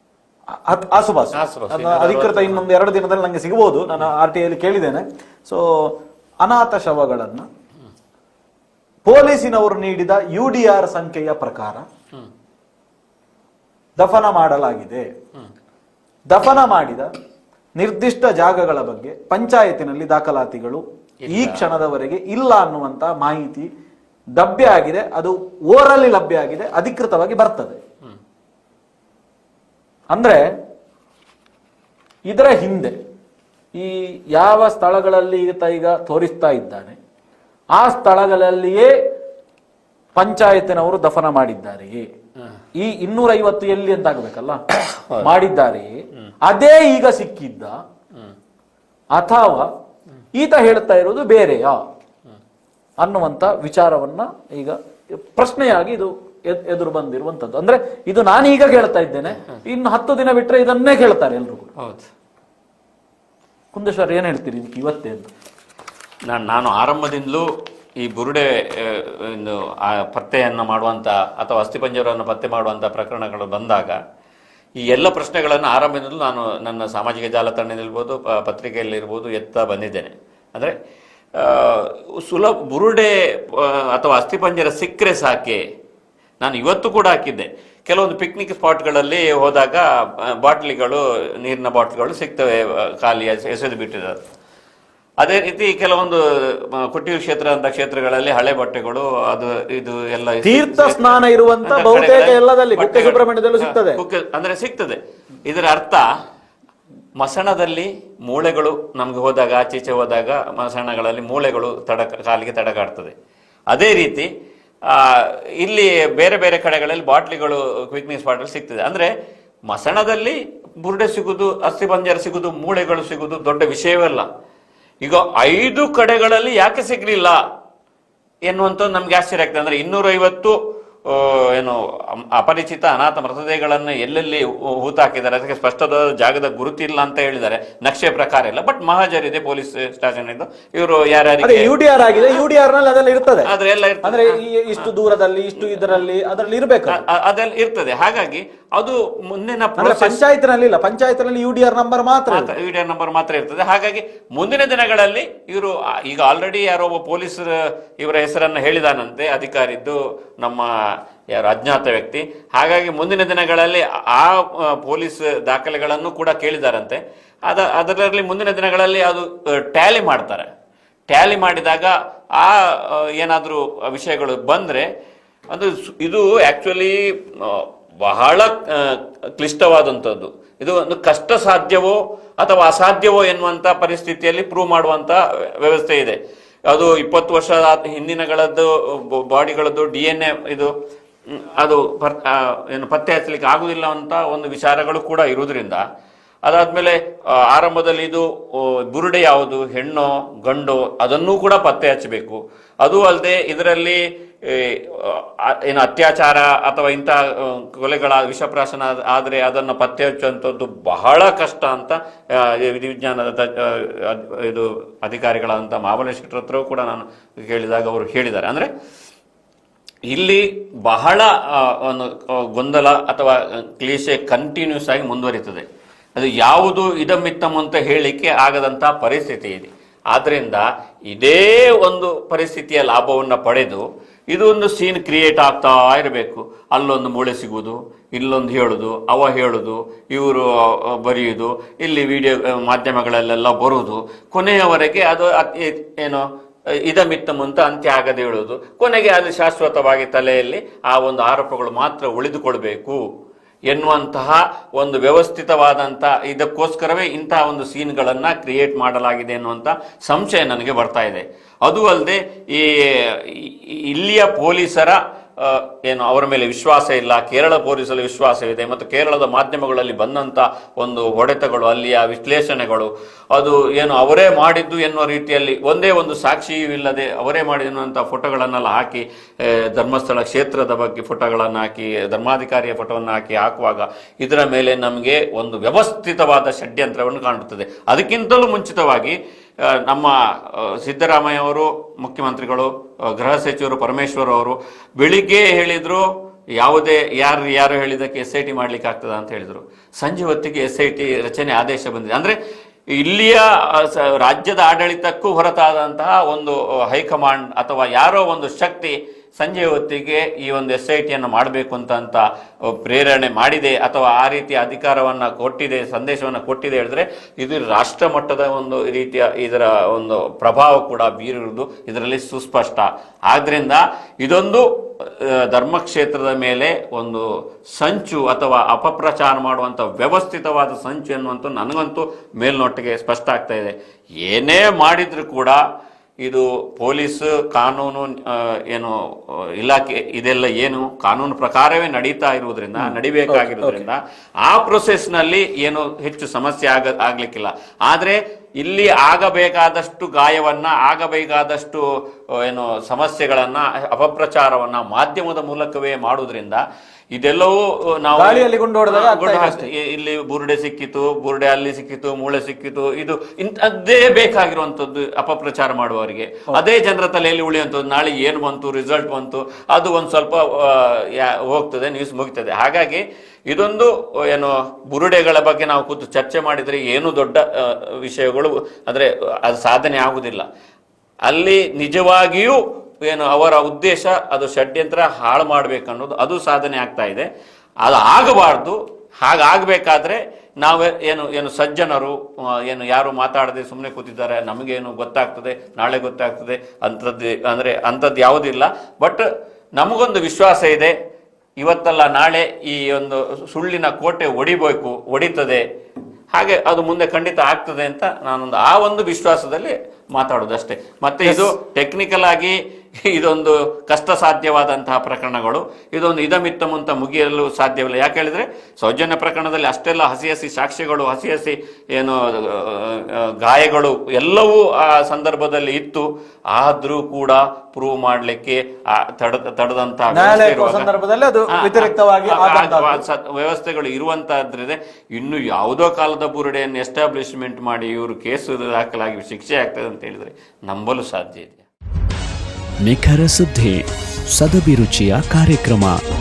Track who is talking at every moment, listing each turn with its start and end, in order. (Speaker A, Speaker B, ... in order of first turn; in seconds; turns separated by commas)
Speaker A: 0.7-5.9, Speaker B: 1.4-2.6, Speaker A: 6.4-7.5, Speaker A: 9.1-11.8, Speaker A: 14.0-15.1, Speaker A: 16.3-17.1, Speaker A: 17.8-23.7, Speaker B: 21.2-21.7, Speaker A: 24.4-27.8, Speaker A: 30.1-30.4, Speaker A: 32.3-32.9, Speaker A: 33.7-37.0, Speaker A: 37.7-38.9, Speaker A: 40.2-42.1, Speaker A: 42.8-44.6, Speaker A: 45.2-47.8, Speaker A: 49.1-49.7, Speaker A: 50.3-51.8, Speaker A: 53.0-54.8, Speaker A: 55.3-61.7, Speaker B: 61.8-62.1, Speaker A: 63.7-65.3, Speaker B: 66.3-67.5, Speaker B: 68.0-74.0, Speaker B: 74.8-80.8, Speaker B: 81.4-85.6, Speaker B: 86.4-94.2, Speaker B: 95.2-106.0, Speaker A: 100.4-104.0, Speaker B: 107.2-113.1, Speaker B: 113.7-114.3, Speaker B: 114.9-119.1, Speaker B: 119.7-124.3, Speaker B: 125.0-127.4, Speaker B: 128.5-131.8, Speaker B: 132.3-142.4, Speaker A: 141.4-143.5, Speaker B: 143.4-144.9, Speaker A: 144.0-147.0, Speaker B: 145.6-146.0, Speaker B: 146.9-150.2, Speaker A: 149.8-152.5, Speaker B: 152.3-160.7, Speaker B: 161.4-170.5, Speaker B: 171.1-174.9, Speaker B: 175.5-190.7, Speaker B: 191.3-195.8, Speaker B: 196.4-218.7, Speaker B: 220.1-225.7, Speaker B: 226.2-246.2, Speaker B: 246.8-253.0, Speaker B: 253.7-289.2, Speaker B: 289.8-296.0, Speaker B: 296.6-302.4, Speaker B: 302.9-312.2, Speaker B: 312.8-327.2, Speaker B: 327.8-335.6, Speaker B: 336.2-338.9, Speaker B: 339.6-351.8, Speaker A: 342.8-343.8, Speaker B: 352.4-356.6, Speaker B: 357.1-380.4, Speaker A: 358.1-359.7, Speaker B: 381.2-387.3, Speaker B: 387.8-399.2, Speaker B: 399.8-400.9, Speaker B: 401.6-405.6, Speaker B: 406.3-430.9, Speaker A: 411.2-411.5, Speaker A: 430.1-433.0, Speaker B: 431.6-441.6, Speaker C: 442.8-446.0